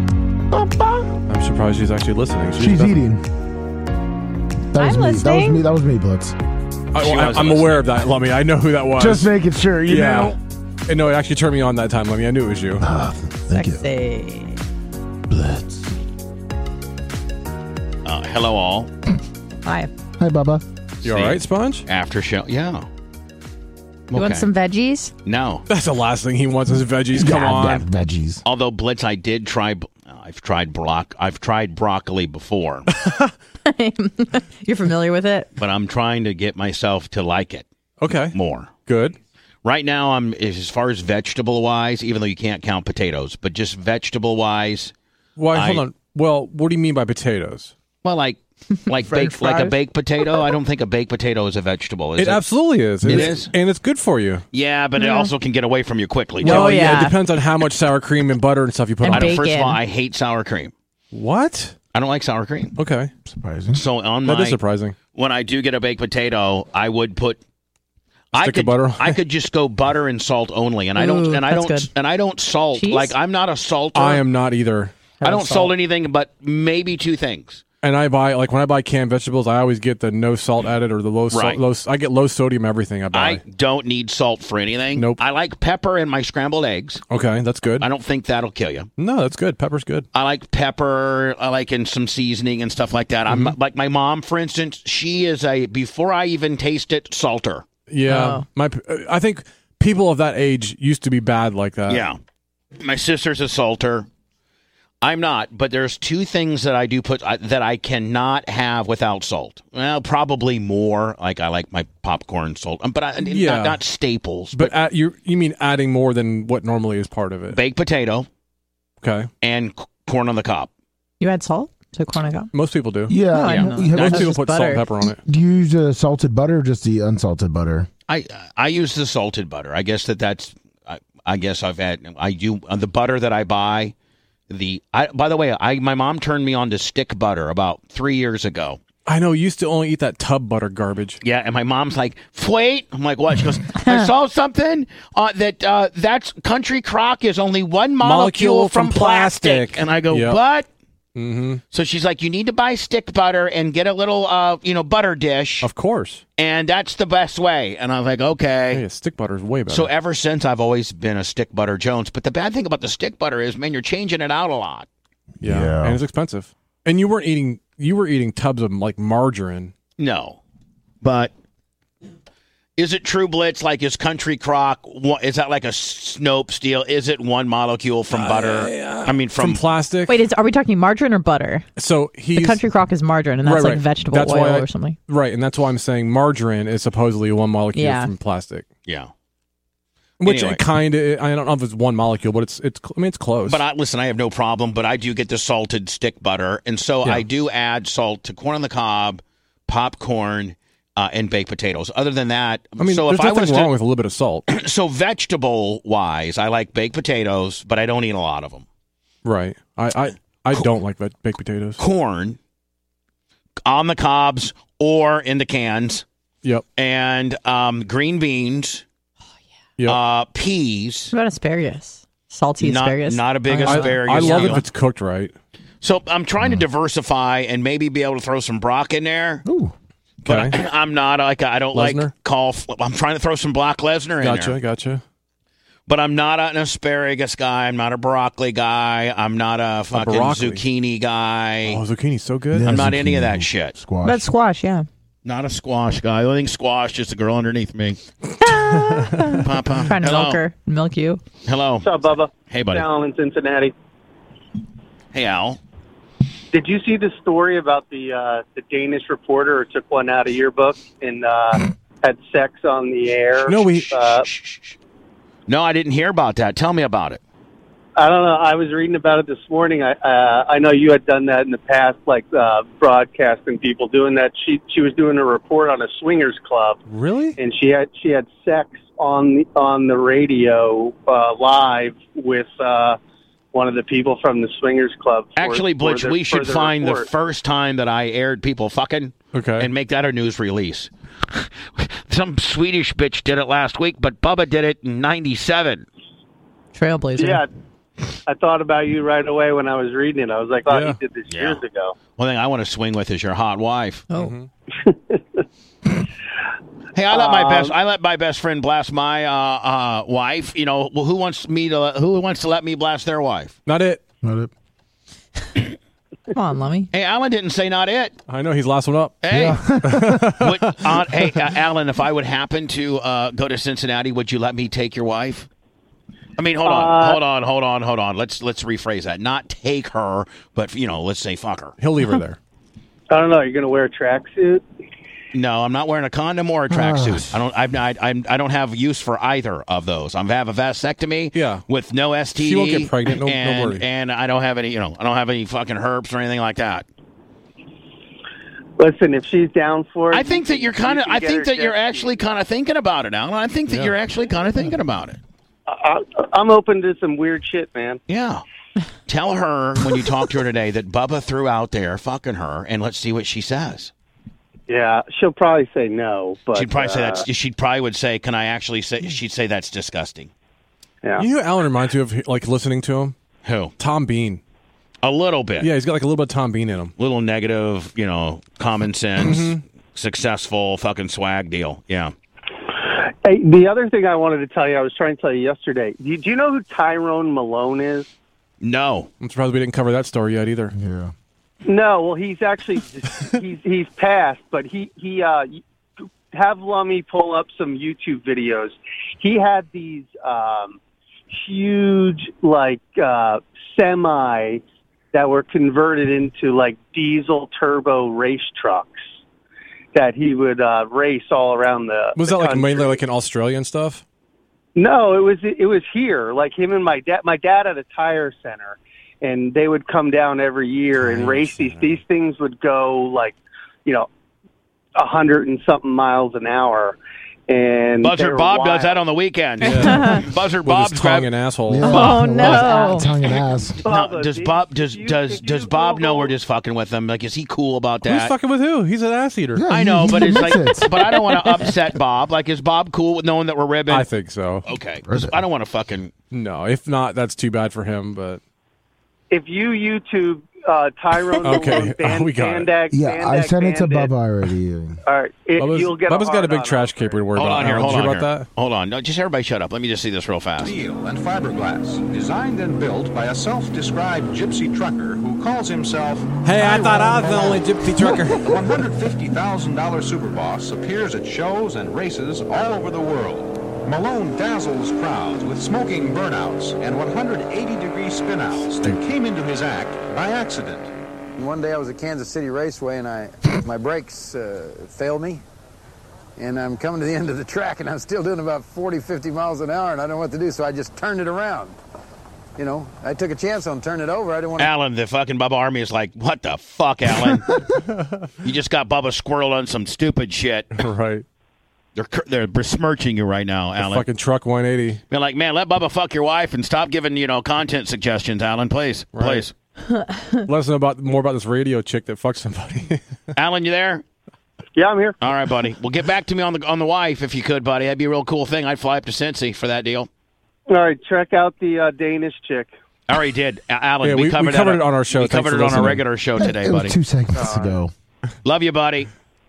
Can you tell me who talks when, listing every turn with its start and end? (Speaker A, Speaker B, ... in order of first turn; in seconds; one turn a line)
Speaker A: 0.5-1.1
Speaker B: 1.3-3.0
Speaker A: 2.6-3.2
Speaker A: 4.7-6.3
Speaker C: 4.8-5.6
Speaker B: 6.9-9.3
Speaker D: 7.0-8.0
Speaker A: 9.0-10.4
Speaker B: 9.8-12.8
Speaker A: 12.8-13.8
Speaker C: 13.5-14.6
Speaker A: 15.3-15.9
Speaker D: 18.0-18.9
Speaker C: 19.6-19.9
Speaker A: 20.2-20.6
Speaker B: 21.0-21.8
Speaker D: 21.0-22.9
Speaker D: 24.1-24.5
Speaker C: 24.1-25.1
Speaker D: 25.2-25.6
Speaker B: 25.7-27.8
Speaker A: 27.1-28.4
Speaker D: 28.4-32.9
Speaker B: 33.0-33.3
Speaker C: 33.6-35.5
Speaker D: 35.6-37.6
Speaker B: 38.0-38.3
Speaker D: 38.3-38.7
Speaker B: 38.9-39.2
Speaker D: 39.6-44.9
Speaker B: 45.4-47.7
Speaker D: 45.5-45.8
Speaker D: 48.0-53.5
Speaker A: 49.0-49.8
Speaker B: 52.2-54.4
Speaker A: 53.0-53.4
Speaker D: 54.5-57.1
Speaker C: 55.0-55.3
Speaker C: 56.4-57.2
Speaker B: 56.4-59.4
Speaker C: 59.0-59.8
Speaker D: 59.0-60.7
Speaker B: 61.1-61.8
Speaker D: 61.9-62.7
Speaker B: 62.8-63.1
Speaker A: 63.3-63.8
Speaker D: 63.7-64.6
Speaker B: 64.2-65.0
Speaker D: 65.1-67.4
Speaker D: 68.3-74.2
Speaker B: 68.4-69.2
Speaker C: 71.0-71.9
Speaker C: 72.7-73.1
Speaker B: 73.9-75.0
Speaker C: 75.2-75.7
Speaker D: 75.2-77.6
Speaker B: 77.8-83.4
Speaker D: 81.3-81.6
Speaker D: 83.1-87.0
Speaker B: 87.1-87.9
Speaker D: 87.8-88.9
Speaker B: 89.0-90.0
Speaker D: 90.1-97.6
Speaker B: 93.3-93.5
Speaker B: 97.9-102.0
Speaker C: 98.0-98.4
Speaker D: 101.9-102.2
Speaker D: 102.8-104.1
Speaker D: 105.0-114.8
Speaker B: 113.3-113.8
Speaker B: 114.5-117.6
Speaker D: 117.5-118.3
Speaker B: 119.0-119.3
Speaker D: 119.4-120.7
Speaker C: 121.2-122.5
Speaker B: 122.5-123.2
Speaker A: 123.1-124.3
Speaker C: 123.3-125.0
Speaker D: 123.4-124.3
Speaker B: 123.9-125.2
Speaker A: 125.1-127.9
Speaker D: 128.1-133.9
Speaker D: 134.5-138.8
Speaker B: 139.1-141.2
Speaker D: 141.2-150.7
Speaker B: 148.0-150.4
Speaker B: 151.2-151.6
Speaker D: 151.7-155.7
Speaker B: 155.6-156.2
Speaker D: 156.4-158.8
Speaker B: 158.7-159.9
Speaker D: 159.7-164.9
Speaker A: 165.4-166.0
Speaker B: 165.4-169.7
Speaker D: 170.0-170.4
Speaker D: 171.0-171.3
Speaker D: 172.8-179.6
Speaker B: 178.1-180.2
Speaker C: 180.1-181.7
Speaker B: 181.8-182.6
Speaker C: 182.3-185.0
Speaker B: 183.4-188.6
Speaker C: 187.7-188.1
Speaker D: 188.8-189.1
Speaker B: 190.2-193.6
Speaker D: 190.2-190.6
Speaker D: 193.4-203.7
Speaker B: 202.8-204.4
Speaker D: 204.5-208.6
Speaker B: 209.2-211.8
Speaker D: 211.8-212.4
Speaker D: 213.6-216.0
Speaker D: 216.8-218.8
Speaker D: 219.8-221.1
Speaker C: 221.1-224.6
Speaker D: 222.6-224.6
Speaker B: 223.5-225.3
Speaker D: 225.8-229.4
Speaker A: 229.4-229.7
Speaker B: 230.2-230.6
Speaker D: 230.2-234.6
Speaker B: 231.7-232.1
Speaker B: 234.2-235.0
Speaker D: 235.9-241.8
Speaker B: 239.9-240.6
Speaker B: 241.6-242.7
Speaker A: 242.5-244.3
Speaker D: 242.6-243.8
Speaker C: 244.0-244.9
Speaker D: 245.2-248.0
Speaker C: 248.4-251.2
Speaker B: 248.5-249.4
Speaker D: 249.4-250.4
Speaker D: 251.4-251.9
Speaker E: 251.8-253.7
Speaker D: 252.5-252.8
Speaker D: 255.1-255.6
Speaker E: 256.5-264.3
Speaker B: 263.4-263.9
Speaker D: 263.6-264.8
Speaker D: 265.5-267.2
Speaker E: 267.9-276.8
Speaker B: 276.9-277.4
Speaker E: 277.4-283.0
Speaker E: 283.5-287.1
Speaker D: 285.4-295.9
Speaker B: 289.3-289.7
Speaker C: 296.7-297.4
Speaker E: 297.2-297.5
Speaker E: 298.3-301.9
Speaker B: 300.7-301.0
Speaker D: 301.3-301.6
Speaker D: 302.1-304.1
Speaker C: 304.1-304.3
Speaker B: 304.1-304.5
Speaker E: 304.8-305.2
Speaker D: 306.9-313.5
Speaker E: 307.1-307.7
Speaker B: 313.6-314.0
Speaker A: 314.2-314.5
Speaker C: 316.3-316.9
Speaker D: 316.9-318.1
Speaker B: 318.3-321.3
Speaker D: 319.2-319.6
Speaker A: 319.3-320.2
Speaker D: 320.4-325.5
Speaker D: 326.4-331.7
Speaker E: 326.6-327.2
Speaker B: 331.8-332.4
Speaker E: 333.1-334.6
Speaker D: 335.3-346.9
Speaker A: 336.7-337.4
Speaker B: 341.3-341.6
Speaker B: 342.4-343.8
Speaker E: 348.8-352.2
Speaker D: 350.1-355.2
Speaker E: 355.7-358.0
Speaker D: 358.1-358.4
Speaker D: 359.1-363.9
Speaker E: 364.7-367.2
Speaker D: 366.5-370.3
Speaker B: 371.2-373.1
Speaker D: 373.4-373.7
Speaker B: 373.8-374.4
Speaker D: 375.0-375.7
Speaker B: 375.6-376.9
Speaker D: 377.0-382.1
Speaker B: 379.2-379.6
Speaker E: 383.2-388.1
Speaker D: 388.6-389.1
Speaker B: 389.2-390.7
Speaker A: 390.7-391.1
Speaker E: 391.6-395.6
Speaker E: 396.3-400.8
Speaker E: 401.3-409.0
Speaker E: 409.9-413.0
Speaker B: 412.1-414.0
Speaker E: 414.8-424.1
Speaker B: 421.0-422.0
Speaker E: 424.9-429.0
Speaker D: 428.0-431.4
Speaker B: 429.6-432.1
Speaker C: 429.7-430.2
Speaker A: 431.7-433.8
Speaker D: 431.9-432.6
Speaker C: 431.9-433.1
Speaker D: 433.4-438.3
Speaker E: 433.8-436.3
Speaker B: 438.0-439.6
Speaker A: 439.6-440.9
Speaker D: 439.7-444.1
Speaker B: 443.9-444.6
Speaker D: 444.6-446.1
Speaker A: 445.1-445.4
Speaker B: 446.3-448.4
Speaker E: 449.3-454.1
Speaker B: 451.4-452.7
Speaker A: 452.9-455.0
Speaker E: 455.0-457.2
Speaker B: 455.6-458.5
Speaker D: 457.3-460.7
Speaker F: 460.6-467.5
Speaker B: 466.4-468.5
Speaker F: 468.4-480.9
Speaker G: 481.4-485.4
Speaker G: 486.4-491.8
Speaker G: 492.6-494.7
Speaker D: 494.6-497.5
Speaker D: 498.4-500.8
Speaker B: 500.8-501.2
Speaker D: 501.9-504.1
Speaker B: 503.8-505.0
Speaker D: 505.1-509.5
Speaker B: 509.1-509.5
Speaker C: 509.9-510.2
Speaker B: 510.4-513.0
Speaker D: 513.3-514.0
Speaker E: 514.8-515.2
Speaker D: 515.2-520.1
Speaker E: 520.7-522.7
Speaker D: 523.1-527.0
Speaker B: 524.0-526.0
Speaker A: 526.4-527.9
Speaker E: 527.3-527.8
Speaker D: 528.4-529.1